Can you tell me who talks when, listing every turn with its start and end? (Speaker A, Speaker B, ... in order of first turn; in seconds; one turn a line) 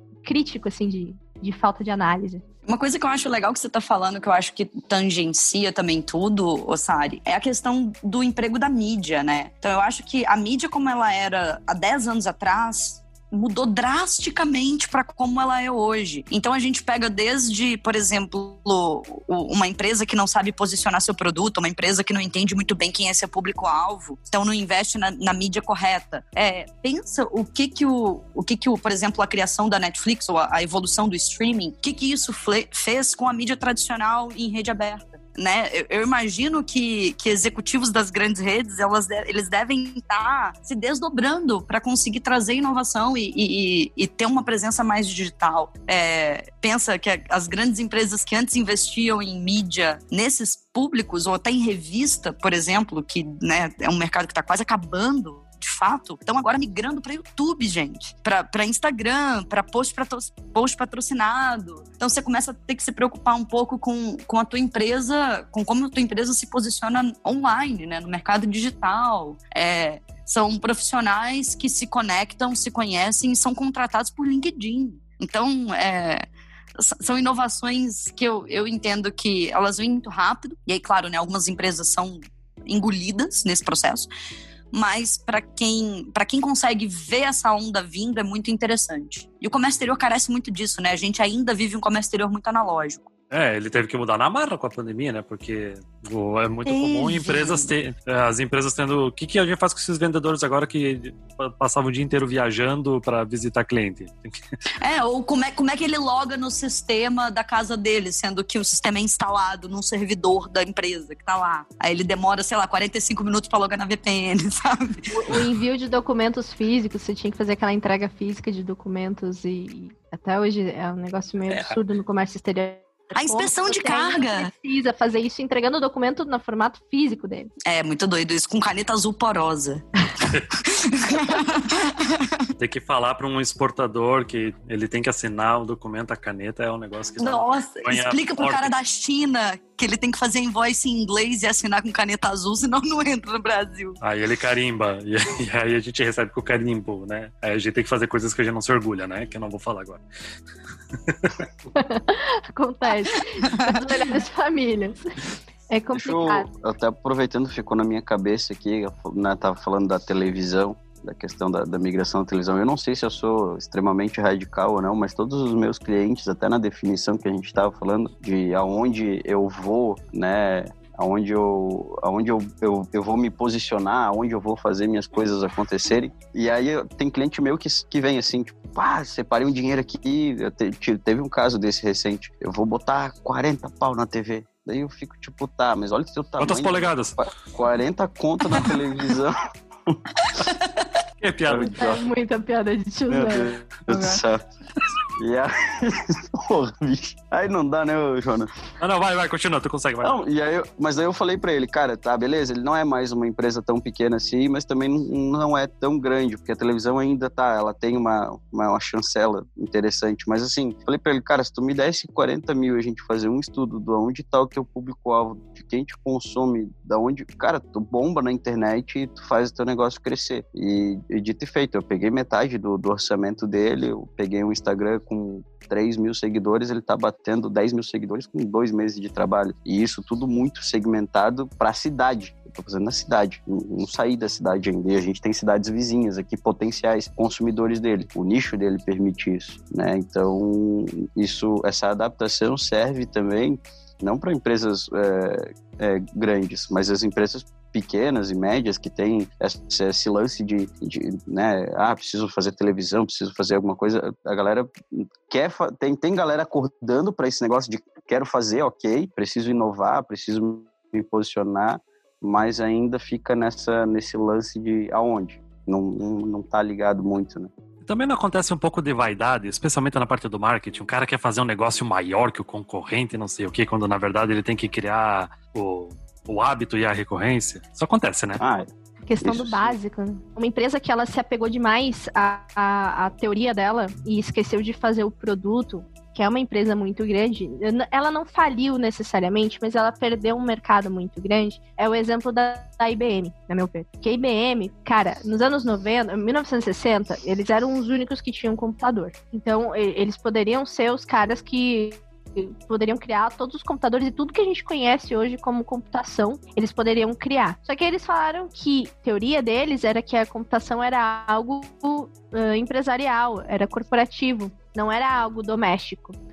Speaker A: 0.2-2.4
Speaker B: 2.6-76.2
Speaker B: 76.8-84.1
Speaker B: 84.7-93.1
Speaker C: 93.3-104.4
Speaker B: 96.7-97.7
Speaker B: 104.8-115.1
Speaker A: 115.1-127.5
Speaker B: 123.2-124.5
Speaker B: 127.7-129.8
Speaker B: 130.5-132.3
Speaker C: 132.6-138.7
Speaker B: 137.2-144.0
Speaker C: 144.0-150.0
Speaker C: 151.1-151.4
Speaker A: 151.7-155.1
Speaker B: 153.5-153.7
Speaker A: 155.7-156.5
Speaker D: 155.9-190.0
Speaker C: 186.4-187.2
Speaker B: 190.2-190.8
Speaker C: 191.2-191.8
Speaker D: 191.5-192.0
Speaker A: 191.7-194.2
Speaker D: 193.1-194.4
Speaker D: 195.2-198.5
Speaker C: 198.8-200.1
Speaker D: 200.0-267.5
Speaker C: 267.8-278.4
Speaker D: 278.4-278.7
Speaker A: 279.1-316.2
Speaker D: 279.2-279.8